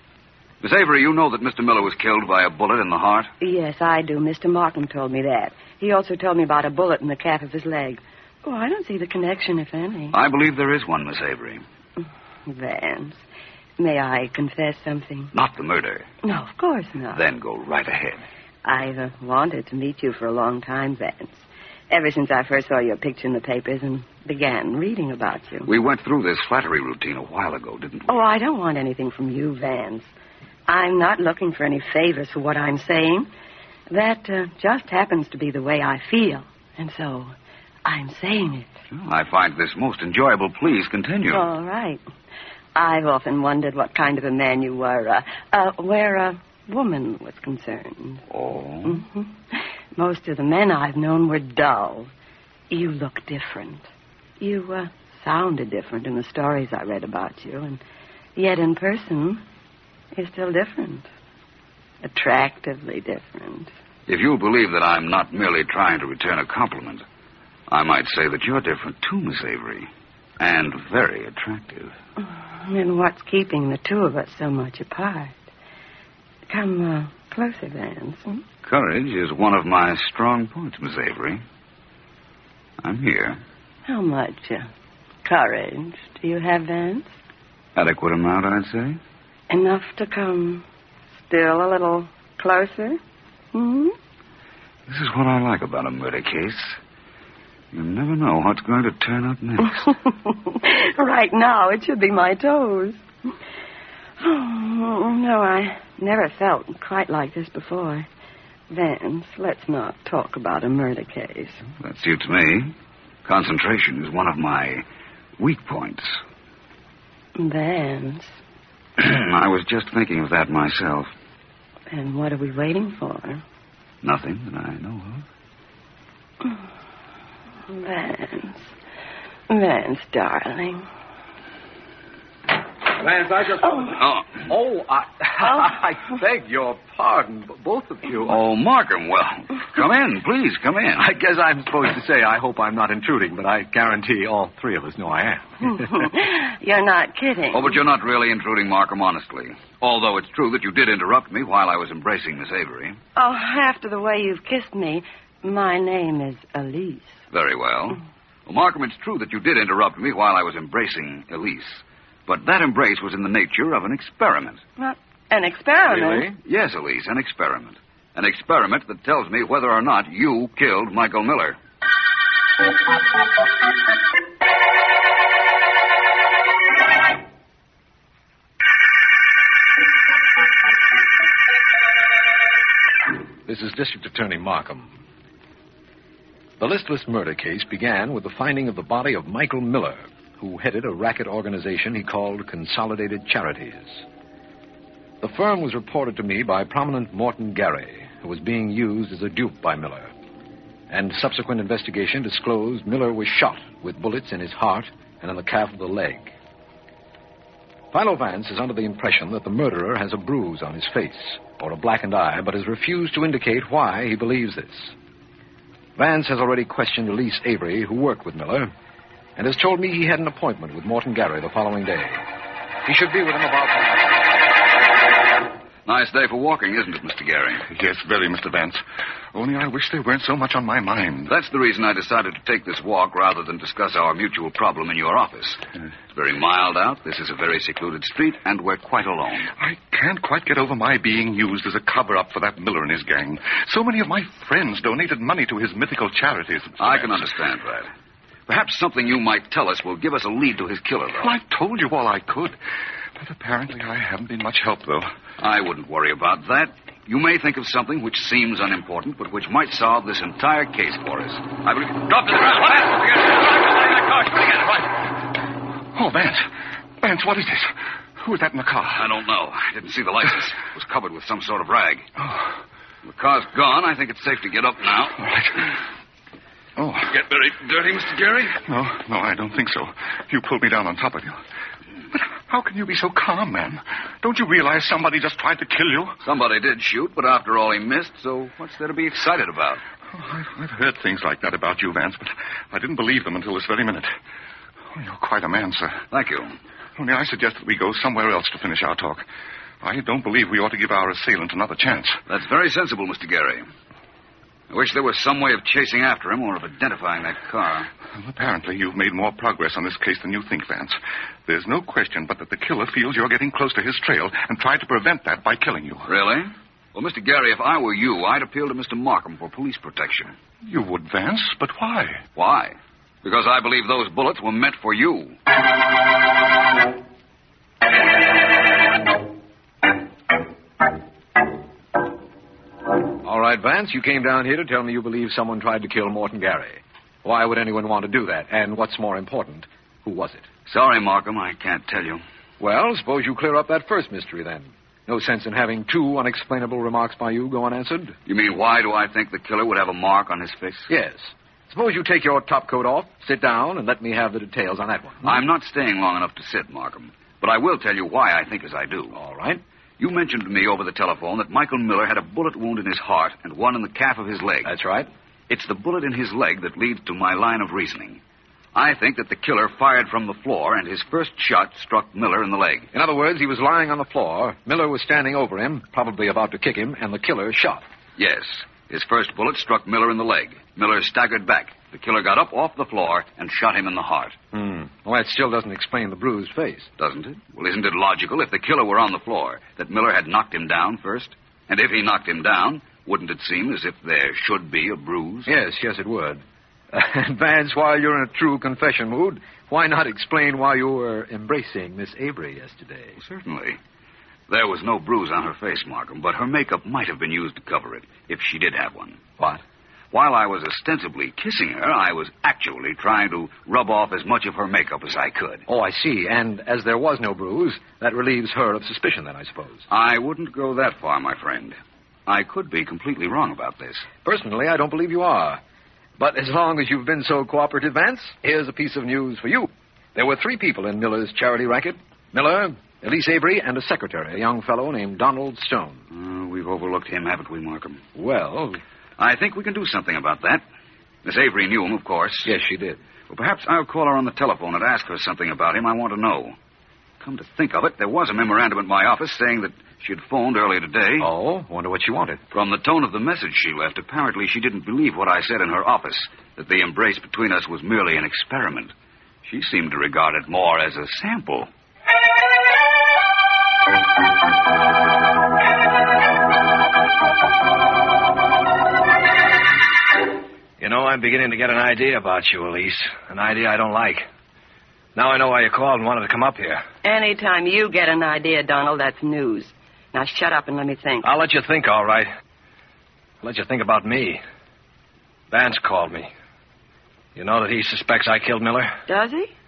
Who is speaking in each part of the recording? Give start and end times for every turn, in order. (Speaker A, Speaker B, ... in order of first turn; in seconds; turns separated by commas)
Speaker A: 0.6-3.3, Speaker B: 3.4-10.2, Speaker A: 10.1-11.6, Speaker B: 12.5-13.2, Speaker B: 13.8-15.3, Speaker A: 15.3-16.1, Speaker B: 16.2-17.2, Speaker A: 17.1-18.2, Speaker B: 18.6-25.7, Speaker A: 25.6-28.1, Speaker B: 28.1-30.1, Speaker B: 30.7-33.3, Speaker B: 33.9-37.3, Speaker B: 37.8-38.7, Speaker A: 38.9-41.5, Speaker B: 41.3-42.0, Speaker B: 42.8-48.2, Speaker A: 48.3-49.0, Speaker B: 48.8-52.1, Speaker B: 52.7-53.9, Speaker B: 54.4-57.8, Speaker B: 58.4-59.4, Speaker B: 60.1-61.1, Speaker B: 62.0-63.7, Speaker A: 64.1-67.0, Speaker A: 67.7-69.9, Speaker A: 70.4-71.9, Speaker B: 72.2-75.3, Speaker B: 76.5-78.4, Speaker A: 78.6-81.4, Speaker A: 82.8-83.4, Speaker B: 83.8-84.7, Speaker B: 85.2-87.1, Speaker A: 87.8-89.0, Speaker B: 89.5-90.6, Speaker B: 91.2-93.0, Speaker B: 93.5-94.0, Speaker A: 94.9-96.8, Speaker A: 97.7-99.9, Speaker B: 100.2-103.0, Speaker B: 104.2-108.1, Speaker B: 108.7-111.6, Speaker A: 111.8-112.7, Speaker A: 113.2-114.8, Speaker A: 115.4-116.2, Speaker B: 117.3-118.4, Speaker A: 119.0-121.1, Speaker B: 121.9-123.4, Speaker A: 124.0-125.2, Speaker B: 127.7-128.7, Speaker B: 129.5-130.8, Speaker C: 132.9-138.4, Speaker A: 134.0-134.4, Speaker A: 138.2-141.1, Speaker C: 140.9-145.9, Speaker B: 145.8-147.8, Speaker A: 147.5-153.0, Speaker B: 153.2-157.2, Speaker A: 157.3-164.6, Speaker B: 164.8-166.3, Speaker C: 165.8-166.4, Speaker A: 166.4-171.6, Speaker C: 183.4-185.0, Speaker C: 186.6-194.0, Speaker C: 195.2-200.1, Speaker C: 200.9-206.3, Speaker C: 207.9-214.9, Speaker C: 216.0-218.7, Speaker C: 219.4-222.2, Speaker C: 222.8-224.2, Speaker A: 225.8-227.6, Speaker D: 227.6-228.8, Speaker D: 229.3-231.3, Speaker A: 231.3-235.6, Speaker A: 236.1-239.5, Speaker D: 239.6-247.2, Speaker A: 246.8-247.9, Speaker A: 248.5-251.3, Speaker D: 251.2-252.6, Speaker D: 253.2-255.1, Speaker A: 255.4-264.7, Speaker D: 265.9-266.5, Speaker D: 267.0-269.1, Speaker A: 268.9-272.1, Speaker D: 272.2-272.5, Speaker A: 273.0-275.2, Speaker D: 275.3-275.5, Speaker D: 276.8-277.1, Speaker A: 277.1-278.5, Speaker D: 278.5-281.4, Speaker D: 282.1-286.2, Speaker A: 286.2-289.8, Speaker D: 290.1-294.1, Speaker D: 294.9-296.0, Speaker A: 296.1-296.5, Speaker D: 297.0-299.2, Speaker D: 299.8-302.2, Speaker A: 302.3-303.6, Speaker A: 304.7-307.9, Speaker D: 308.1-316.1, Speaker A: 316.1-320.3, Speaker D: 320.6-322.2, Speaker A: 322.4-325.4, Speaker C: 333.2-340.5, Speaker A: 340.7-342.2, Speaker C: 342.6-348.1, Speaker A: 348.3-350.9, Speaker C: 350.9-355.4, Speaker A: 355.2-359.1, Speaker C: 359.1-359.6, Speaker A: 360.0-364.7, Speaker C: 364.6-365.1, Speaker A: 365.5-368.2, Speaker A: 368.7-372.9, Speaker C: 372.9-377.8, Speaker A: 378.2-384.4, Speaker C: 384.5-386.9, Speaker A: 387.0-395.5, Speaker C: 395.4-403.2, Speaker A: 403.2-403.8, Speaker A: 404.5-409.2, Speaker A: 410.1-415.6, Speaker C: 415.7-419.8, Speaker A: 419.9-421.8, Speaker A: 422.3-424.1, Speaker C: 424.2-425.6, Speaker C: 426.2-436.0, Speaker A: 436.1-438.0, Speaker C: 438.1-438.8, Speaker A: 439.2-440.6, Speaker A: 441.2-442.5, Speaker C: 442.4-443.0, Speaker A: 443.3-446.6, Speaker A: 447.2-451.3, Speaker C: 451.2-452.4, Speaker A: 452.5-458.9, Speaker A: 459.4-461.7, Speaker E: 470.8-474.2, Speaker E: 475.1-476.8, Speaker B: 477.0-481.2, Speaker E: 481.2-482.3, Speaker E: 483.4-484.4, Speaker E: 485.5-486.3, Speaker E: 487.3-488.9, Speaker B: 489.1-489.5